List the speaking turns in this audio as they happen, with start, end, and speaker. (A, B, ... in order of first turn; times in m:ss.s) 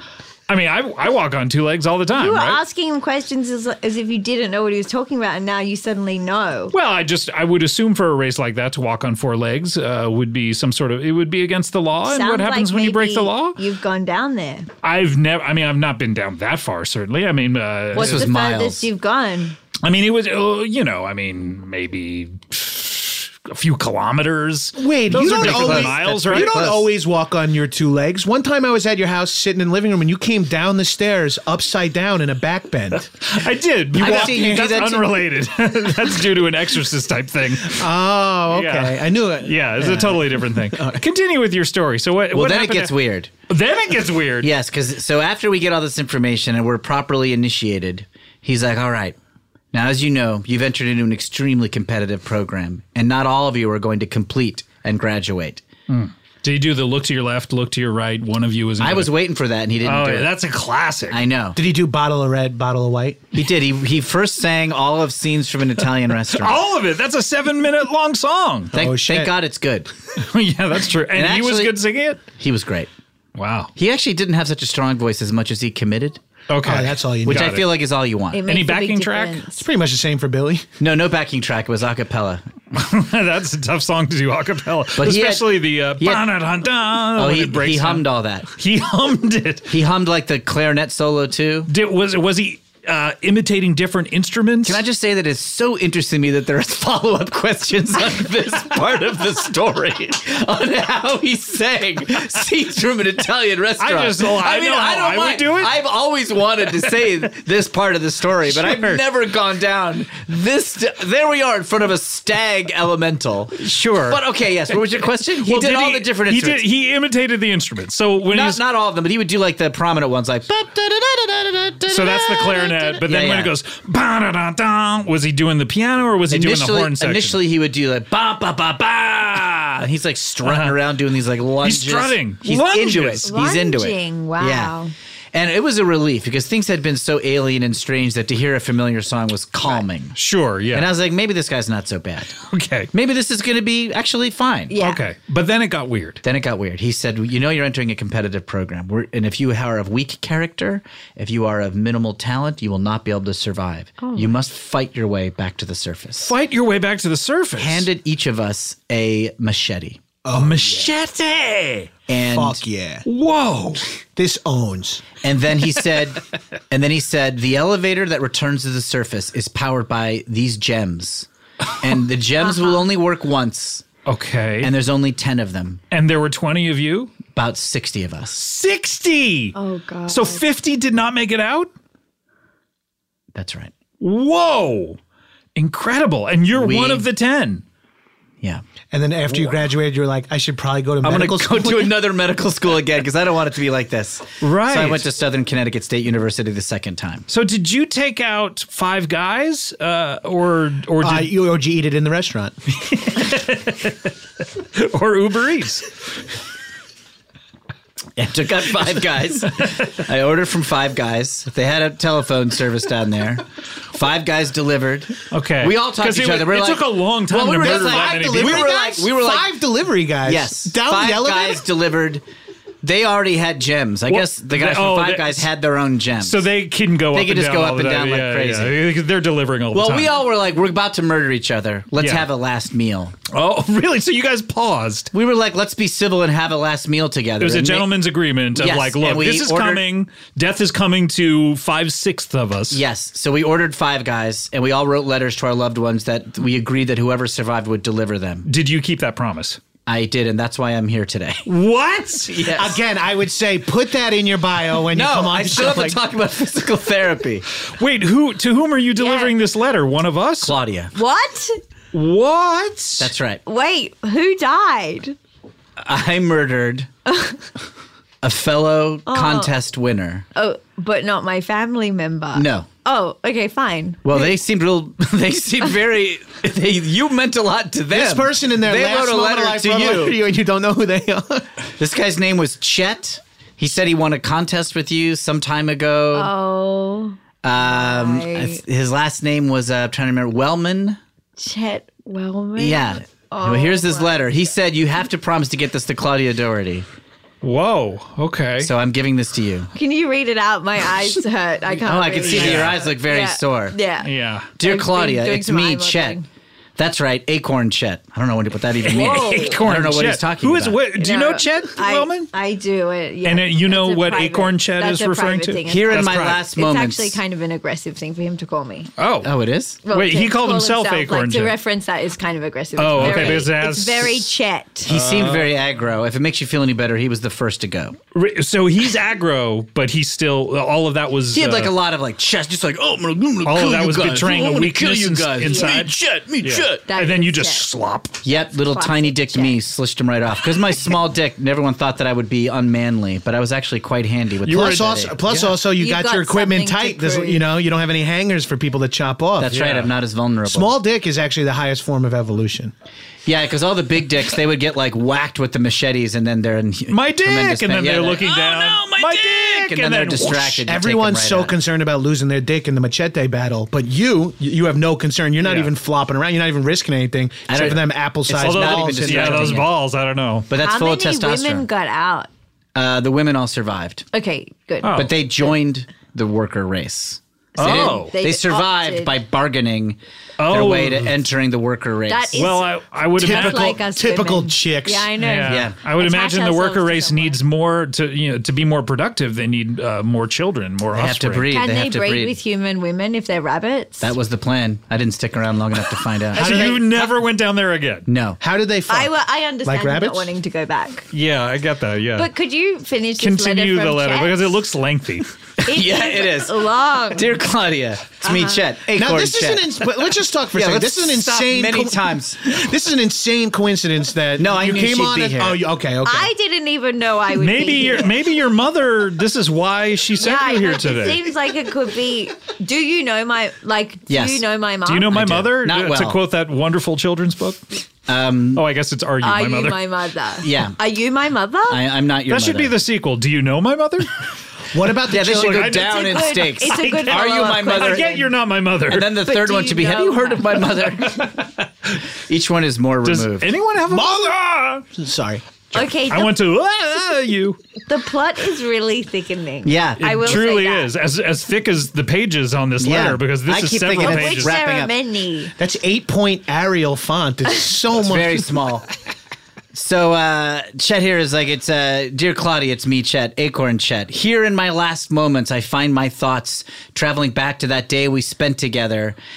0:00.5-0:02.6 A
0:02.1-0:06.7 B
0:06.7-0:13.6 A
0:12.0-0:14.7 B
0:14.8-0:18.3 A
0:17.9-0:18.9 C
0:17.9-0:19.6 B
0:19.8-0:26.8 A
0:24.8-0:33.1 D
0:25.1-0:26.9 C
0:33.2-0:37.8 A
0:33.9-0:35.2 C
0:34.0-0:34.8 D
0:37.7-0:41.0 D
0:38.5-0:42.9 A
0:42.3-0:43.3 C
0:43.5-0:44.5 A
0:44.4-0:49.1 C
0:49.7-0:55.6 C
0:55.9-0:59.1 A
0:58.8-1:00.3 C
0:59.8-1:01.2 A
1:01.1-1:01.6 C
1:01.6-1:03.3 D
1:03.3-1:06.7 C
1:06.3-1:08.7 A
1:08.7-1:09.3 D
1:08.7-1:09.9 C
1:10.2-1:12.2 A
1:11.1-1:11.8 C
1:12.4-1:12.9 C
1:13.4-1:13.7 A
1:13.8-1:16.2 C
1:16.5-1:17.6 A
1:16.6-1:17.6 D
1:17.2-1:18.4 C
1:18.3-1:19.6 B
1:18.4-1:19.4 A
1:19.6-1:20.6 D
1:20.8-1:22.4 C
1:22.7-1:29.7 A
1:25.0-1:26.4 C
1:27.1-1:28.5 C
1:29.7-1:31.7 C
1:31.7-1:34.8 A
1:34.6-1:56.6 C
1:43.8-1:45.7 A
1:48.5-1:49.0 A
1:53.6-1:54.2 A
1:55.3-1:58.6 A
1:58.3-2:03.5 C
2:01.9-2:07.4 A
2:06.3-2:14.7 C
2:09.5-2:09.8 A
2:10.4-2:10.8 A
2:11.6-2:13.3 A
2:13.2-2:14.9 B
2:15.3-2:20.2 C
2:20.1-2:20.9 A
2:20.7-2:22.4 C
2:22.4-2:22.9 A
2:22.9-2:24.8 C
2:24.7-2:25.0 B
2:24.8-2:26.2 A
2:26.2-2:36.3 C
2:34.0-2:34.4 B
2:36.2-2:37.9 A
2:37.6-2:40.0 C
2:40.2-2:40.9 D
2:40.3-2:41.9 A
2:42.1-2:42.6 C
2:42.3-2:43.0 D
2:43.0-2:43.8 A
2:44.2-2:45.1 D
2:45.2-2:51.3 C
2:51.8-2:53.8 C
2:52.4-2:52.8 B
2:54.0-2:54.7 A
2:54.6-2:55.8 C
2:55.9-2:57.1 A
2:57.3-2:58.4 C
2:58.3-2:59.6 A
2:59.5-3:00.4 B
3:00.1-3:01.7 A
3:03.3-3:03.7 C
3:04.0-3:05.0 A
3:05.6-3:07.6 A
3:06.5-3:07.0 C
3:08.9-3:12.0 D
3:11.0-3:17.2 C
3:14.4-3:15.1 A
3:17.3-3:21.3 A
3:21.0-3:22.6 D
3:22.9-3:24.1 A
3:24.7-3:25.9 A
3:28.2-3:39.6 C
3:35.3-3:38.7 A
3:37.6-3:41.6 D
3:40.2-3:42.2 C
3:42.8-3:46.5 C
3:44.1-3:45.5 A
3:46.2-3:50.1 A
3:47.1-3:48.8 C
3:49.7-3:53.1 C
3:52.0-3:52.2 A
3:53.3-3:55.1 A
3:55.1-3:57.9 C
3:57.4-4:02.8 A
3:58.5-3:59.8 C
4:02.7-4:08.5 C
4:08.4-4:09.6 A
4:09.8-4:11.4 C
4:11.4-4:12.4 A
4:12.2-4:12.8 C
4:12.5-4:16.0 D
4:14.9-4:17.4 C
4:17.7-4:20.5 A
4:19.0-4:19.3 B
4:20.4-4:20.9 C
4:20.9-4:21.6 B
4:21.9-4:23.1 A
4:23.0-4:23.4 C
4:23.4-4:25.2 B
4:25.8-4:26.9 C
4:27.0-4:27.4 B
4:28.2-4:30.2 C
4:29.0-4:29.5 B
4:30.3-4:34.4 B
4:32.3-4:32.7 C
4:34.0-4:40.2 C
4:37.9-4:41.5 D
4:41.8-4:46.3 C
4:46.1-4:48.6 B
4:47.4-4:51.0 C
4:51.4-4:54.5 B
4:52.6-4:56.8 C
4:57.4-4:58.7 A
4:58.6-4:59.7 C
4:59.7-5:06.2 B
5:01.8-5:03.8 C
5:02.2-5:02.8 A
5:04.0-5:04.5 A
5:04.6-5:06.2 C
5:06.8-5:10.8 C
5:08.8-5:12.3 A
5:08.9-5:09.7 B
5:10.9-5:18.9 B
5:13.2-5:16.4 A
5:15.6-5:17.2 C
5:19.0-5:19.3 A
5:19.2-5:19.8 C
5:19.8-5:24.9 B
5:19.9-5:21.5 A
5:22.8-5:24.3 A
5:23.0-5:23.5 C
5:24.8-5:28.0 C
5:24.9-5:25.3 A
5:28.1-5:31.7 A
5:31.3-5:36.8 C
5:33.4-5:38.2 A
5:35.4-5:35.9 B
5:36.8-5:37.6 B
5:38.2-5:45.5 C
5:38.6-5:39.6 B
5:44.4-5:49.6 D
5:45.6-5:47.4 B
5:49.4-5:50.7 C
5:49.4-5:49.9 A
5:50.4-5:52.7 D
5:53.2-6:01.5 C
5:56.9-6:00.6 A
6:00.6-6:09.6 D
6:05.4-6:05.7 A
6:07.5-6:09.7 C
6:07.5-6:07.8 A
6:08.3-6:10.5 A
6:10.5-6:11.6 C
6:10.5-6:12.3 B
6:12.7-6:14.0 C
6:14.1-6:15.5 B
6:14.8-6:15.1 A
6:14.9-6:22.6 C
6:17.6-6:18.1 A
6:17.6-6:19.2 B
6:20.4-6:21.1 A
6:22.1-6:27.4 B
6:22.3-6:23.7 A
6:23.2-6:25.1 D
6:25.2-6:31.5 A
6:25.5-6:25.8 C
6:30.9-6:32.4 C
6:31.5-6:34.1 B
6:34.0-6:37.1 C
6:36.3-6:37.0 D
6:36.3-6:38.1 A
6:38.1-6:38.4 C
6:38.4-6:40.3 D
6:38.9-6:41.1 B
6:41.1-6:42.3 A
6:42.1-6:44.6 B
6:43.2-6:45.3 A
6:45.6-6:47.4 B
6:45.6-6:49.8 C
6:48.2-6:48.7 B
6:48.9-6:56.3 D
6:50.5-6:52.4 C
6:54.4-6:55.6 C
6:56.0-6:58.2 B
6:57.4-7:01.2 A
7:00.2-7:05.2 B
7:04.1-7:04.4 C
7:04.8-7:07.6 A
7:05.1-7:06.2 C
7:08.1-7:08.6 C
7:08.5-7:09.8 A
7:09.2-7:11.9 B
7:10.4-7:10.8 C
7:11.7-7:12.8 C
7:12.3-7:14.1 A
7:14.7-7:15.8 D
7:15.1-7:18.2 C
7:15.3-7:16.0 A
7:15.8-7:18.3 B
7:16.9-7:19.1 A
7:18.9-7:21.4 C
7:19.1-7:20.9 B
7:21.1-7:21.4 A
7:22.3-7:23.5 C
7:23.0-7:24.7 A
7:23.9-7:25.6 D
7:25.7-7:26.3 B
7:26.1-7:27.6 A
7:27.8-7:30.9 B
7:29.6-7:30.5 C
7:30.0-7:34.6 A
7:32.8-7:34.9 C
7:34.0-7:35.5 B
7:35.6-7:38.5 D
7:38.0-7:38.9 C
7:39.7-7:49.2 C